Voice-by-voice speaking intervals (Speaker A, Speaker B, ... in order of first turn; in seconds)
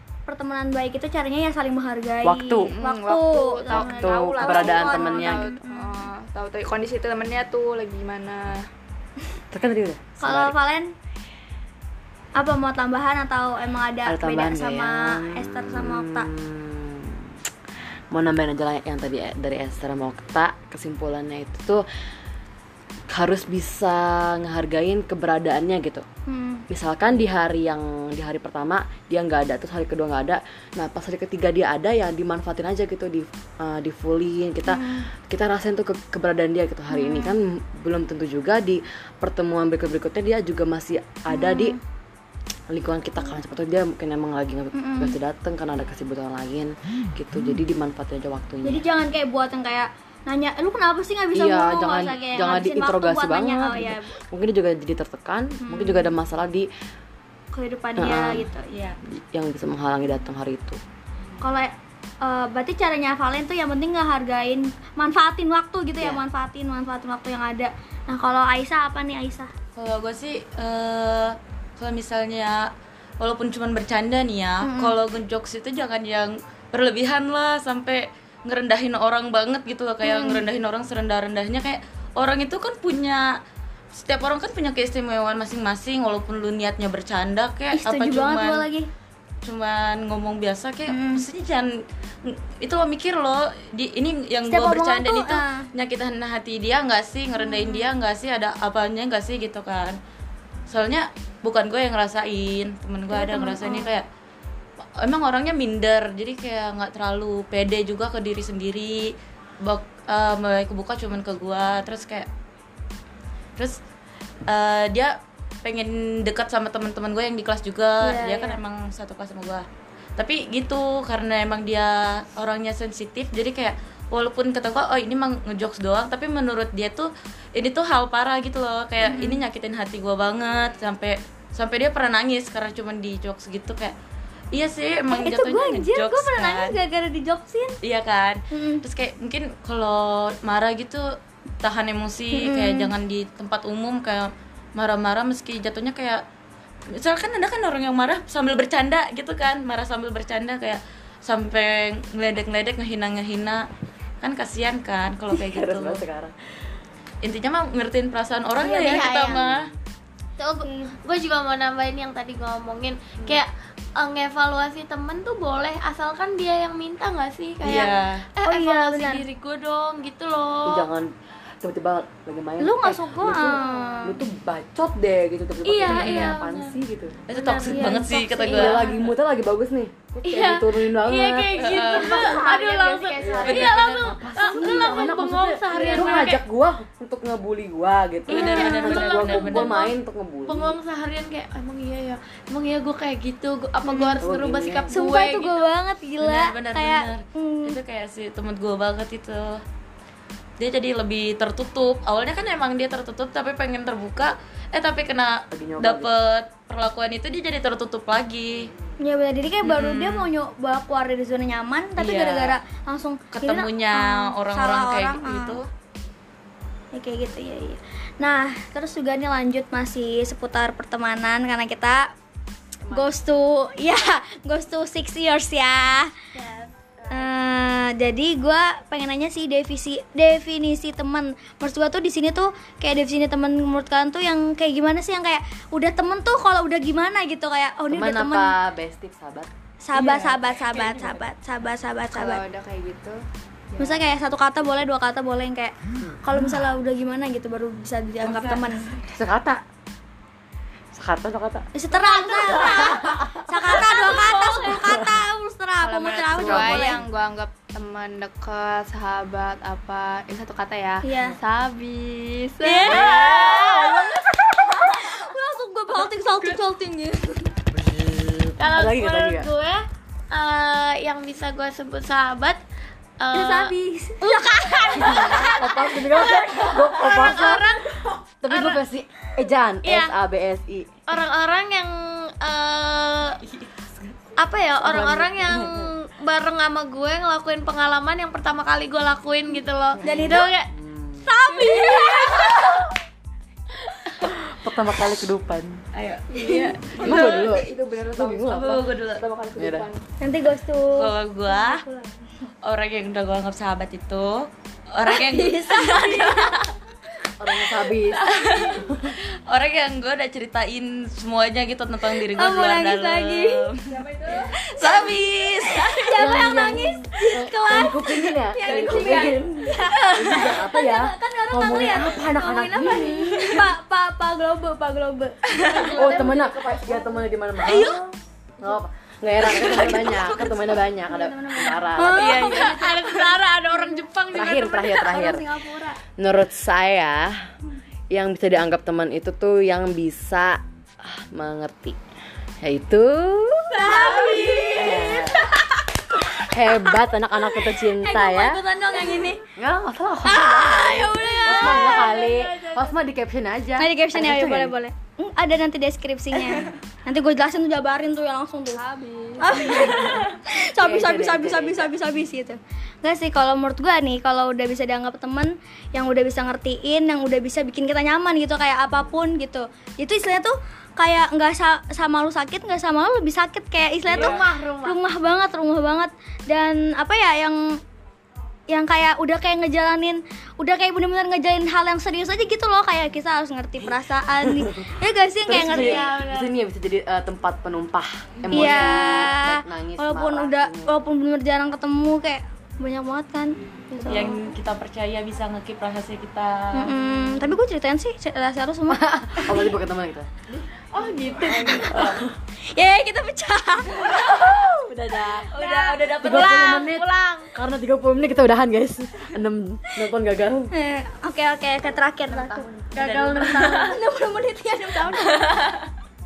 Speaker A: 0.3-6.1, 10.2-10.9, 12.4-16.3, 26.3-26.6, 34.7-35.1, 36.9-37.4, 41.3-41.8, 44.7-45.2, 48.6-54.2, 55.6-56.1, 57.5-58.8, 61.4-69.5, 74.6-75.0, 80.0-80.4, 87.7-88.9, 90.9-91.2, 94.5-95.7, 97.4-97.9, 103.1-103.9, 118.0-118.6, 129.0-129.4, 135.1-137.8, 138.5-138.8, 142.3-142.9, 160.6-160.9, 168.4-169.2, 172.6-174.2, 177.7-178.6, 182.0-182.5, 184.7-185.0, 185.7-186.2, 188.3-188.9, 193.8-194.2, 194.9-197.8, 209.0-215.6, 216.9-222.1, 222.9-226.1, 227.1-238.6, 239.8-242.4, 243.8-248.9, 251.8-257.0, 261.0-261.4, 262.6-267.5, 273.3-277.4, 290.0-290.6, 291.3-292.6, 296.3-296.8, 300.2-302.2, 305.1-306.7, 312.1-313.8, 314.3-315.1, 315.6-326.4, 327.6-328.1, 329.5-333.0, 334.9-336.0, 343.8-345.6, 346.7-349.4, 350.2-352.1, 353.8-358.8, 359.4-377.8, 378.7-386.1, 388.5-394.4, 396.7-399.7, 401.7-402.0, 402.7-404.7, 405.5-406.1, 410.7-412.7, 413.3-415.8
Speaker B: 2.2-2.7, 3.7-5.5, 9.5-10.6, 14.1-17.3, 18.1-21.9, 23.1-26.1, 26.7-41.8, 42.7-48.8, 51.3-56.7, 58.0-58.5, 59.0-60.8, 155.3-156.3, 159.3-159.8, 170.7-177.3, 178.5-181.7, 183.2-190.8, 194.2-194.9, 205.5-206.1, 237.9-239.5, 249.1-249.6, 250.9-251.7, 252.6-253.7, 256.3-257.0, 267.7-269.5, 274.9-277.7, 278.4-280.9, 284.8-285.9, 290.7-291.3, 294.4-295.8, 297.0-298.8, 299.6-299.9, 307.4-309.2, 316.1-323.5, 325.9-328.0, 328.6-332.4, 334.3-335.4, 336.2-337.4, 338.1-342.0, 342.6-343.9, 344.8-345.4, 346.4-348.6, 349.6-354.8, 360.8-361.9, 384.4-384.7, 385.5-391.0, 398.9-400.3, 401.9-402.3, 404.7-405.5, 406.2-410.7, 413.0-413.7
Speaker C: 2.7-8.7, 182.1-183.9, 222.9-223.1, 242.1-243.2, 243.7-244.1, 255.8-263.8, 296.4-300.0, 313.9-314.5, 325.7-327.2, 358.7-359.5
Speaker D: 58.7-59.0, 69.8-83.4, 83.9-88.7, 89.4-100.0, 100.7-104.1, 105.0-112.3, 114.5-119.7, 120.2-133.9, 134.5-136.8, 137.8-146.2, 146.9-153.7, 154.2-156.0, 157.2-159.7, 167.6-168.2, 175.8-176.4, 177.3-178.9, 181.5-182.4, 183.4-184.1, 188.3-189.8, 196.2-199.6, 200.6-208.7, 209.6-210.3, 212.0-212.6, 213.3-215.7, 239.9-241.2, 248.2-248.7, 283.4-284.1, 295.9-297.6, 298.5-299.2, 300.9-301.8, 302.6-306.7, 308.1-316.2, 332.2-333.2, 374.1-374.4, 394.1-396.9, 400.9-402.3, 405.5-406.9, 412.9-414.0, 415.1-415.8
Speaker E: 158.6-159.5, 160.4-170.9, 175.7-176.8, 177.3-179.0, 180.2-186.4, 188.3-189.9, 190.5-195.7, 226.3-227.3, 262.9-263.9, 268.6-272.6, 273.2-278.8, 279.8-280.1, 281.1-283.4, 284.4-290.7, 291.4-292.6, 332.0-335.1, 343.9-344.9, 350.9-353.0, 374.1-375.0, 385.5-386.5, 406.3-407.6, 413.0-413.9